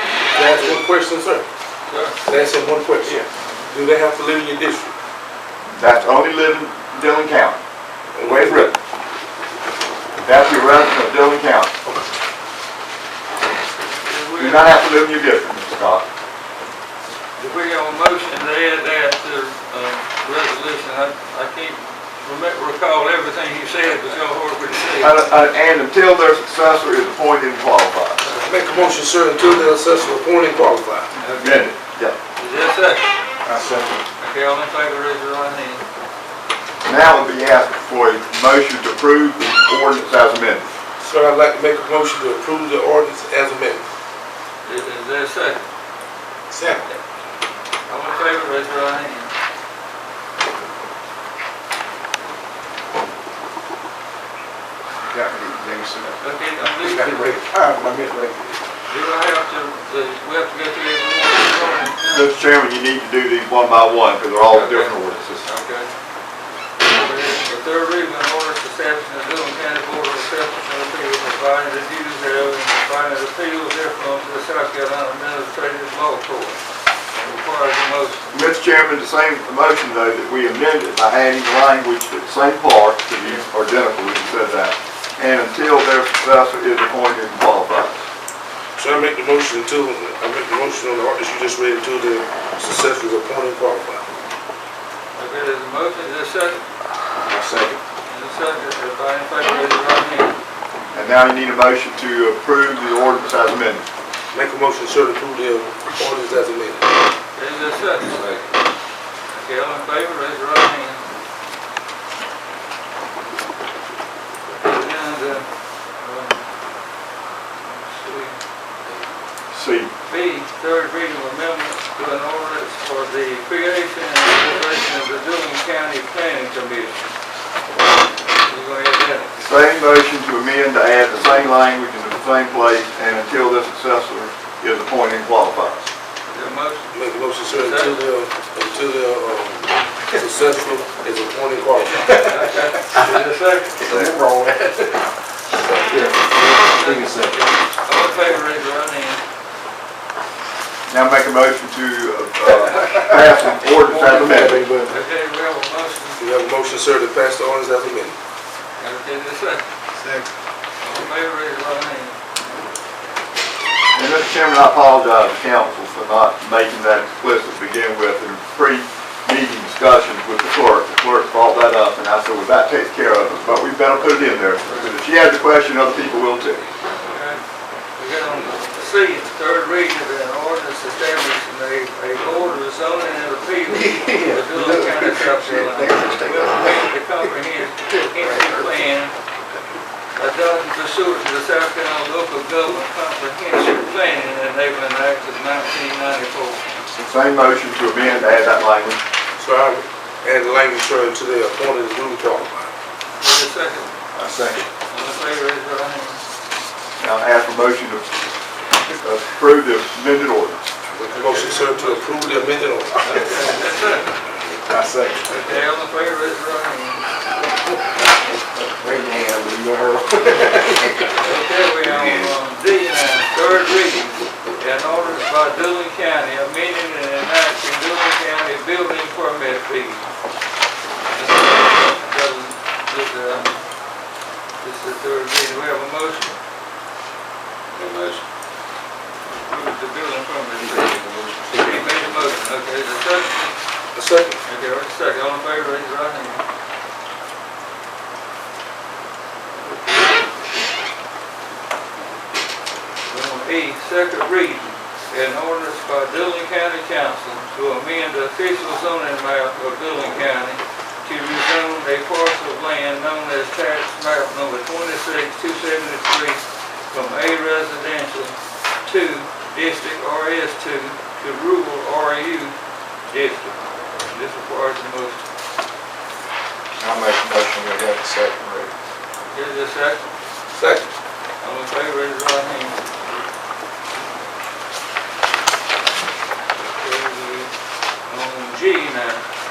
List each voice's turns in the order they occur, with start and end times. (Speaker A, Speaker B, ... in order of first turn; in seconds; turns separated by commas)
Speaker A: 0.3-1.4, Speaker B: 0.3-0.8, Speaker B: 1.9-2.2, Speaker A: 2.2-4.9, Speaker C: 5.8-7.6, Speaker A: 8.1-8.7, Speaker C: 8.2-8.8, Speaker C: 10.2-11.7, Speaker B: 13.9-14.8, Speaker C: 14.4-16.1, Speaker B: 17.4-25.3, Speaker C: 25.0-28.2, Speaker B: 28.2-28.9, Speaker A: 28.4-31.1, Speaker B: 31.2-31.7, Speaker C: 31.4-32.2, Speaker B: 32.4-33.2, Speaker D: 33.4-34.0, Speaker B: 34.2-35.8, Speaker C: 36.8-40.7, Speaker A: 41.0-43.9, Speaker B: 44.6-45.6, Speaker A: 46.5-46.8, Speaker B: 47.9-49.3, Speaker D: 55.1-56.2, Speaker B: 56.2-57.2, Speaker D: 56.8-58.6, Speaker A: 57.1-57.4, Speaker B: 58.9-62.3, Speaker C: 62.1-65.5, Speaker B: 64.5-65.9, Speaker B: 66.8-76.6, Speaker B: 77.1-78.2, Speaker C: 78.3-88.0, Speaker A: 88.8-94.0, Speaker B: 95.1-96.6, Speaker D: 97.2-97.8, Speaker B: 98.1-100.3, Speaker C: 100.9-103.8, Speaker A: 104.3-107.0, Speaker B: 107.3-108.4, Speaker B: 109.3-111.0, Speaker B: 114.5-116.4, Speaker B: 117.6-118.4, Speaker C: 119.5-119.9, Speaker B: 120.1-127.1, Speaker B: 128.4-129.4, Speaker C: 129.4-135.9, Speaker B: 136.3-137.0, Speaker A: 136.9-142.3, Speaker B: 137.5-138.0, Speaker B: 142.1-143.8, Speaker D: 143.8-147.4, Speaker C: 143.8-144.1, Speaker B: 146.1-149.2, Speaker C: 150.9-154.7, Speaker B: 152.4-156.2, Speaker D: 154.0-155.0, Speaker A: 156.2-158.2, Speaker B: 158.8-159.6, Speaker D: 159.9-160.3, Speaker B: 160.8-162.2, Speaker C: 163.9-176.6, Speaker B: 174.6-174.9, Speaker B: 177.0-177.4, Speaker B: 178.0-189.1, Speaker D: 183.7-186.9, Speaker D: 188.1-188.8, Speaker B: 190.1-196.6, Speaker C: 196.9-199.0, Speaker A: 199.4-202.7, Speaker B: 203.2-203.9, Speaker C: 204.1-204.6, Speaker B: 204.9-206.2, Speaker C: 207.0-208.1, Speaker C: 209.0-210.7, Speaker A: 211.0-213.5, Speaker B: 211.1-214.1, Speaker D: 214.6-215.3, Speaker B: 215.2-217.0, Speaker D: 218.5-221.2, Speaker B: 221.1-230.1, Speaker D: 221.8-222.3, Speaker B: 231.1-233.6, Speaker B: 234.6-236.3, Speaker B: 239.3-243.5, Speaker A: 243.9-244.4, Speaker B: 244.4-246.4, Speaker B: 249.6-249.9, Speaker B: 253.1-272.6, Speaker B: 273.1-273.5, Speaker B: 274.1-275.2, Speaker D: 276.8-278.7, Speaker B: 279.3-280.0, Speaker A: 280.5-280.9, Speaker B: 281.4-282.8, Speaker B: 286.6-287.5, Speaker B: 288.1-289.2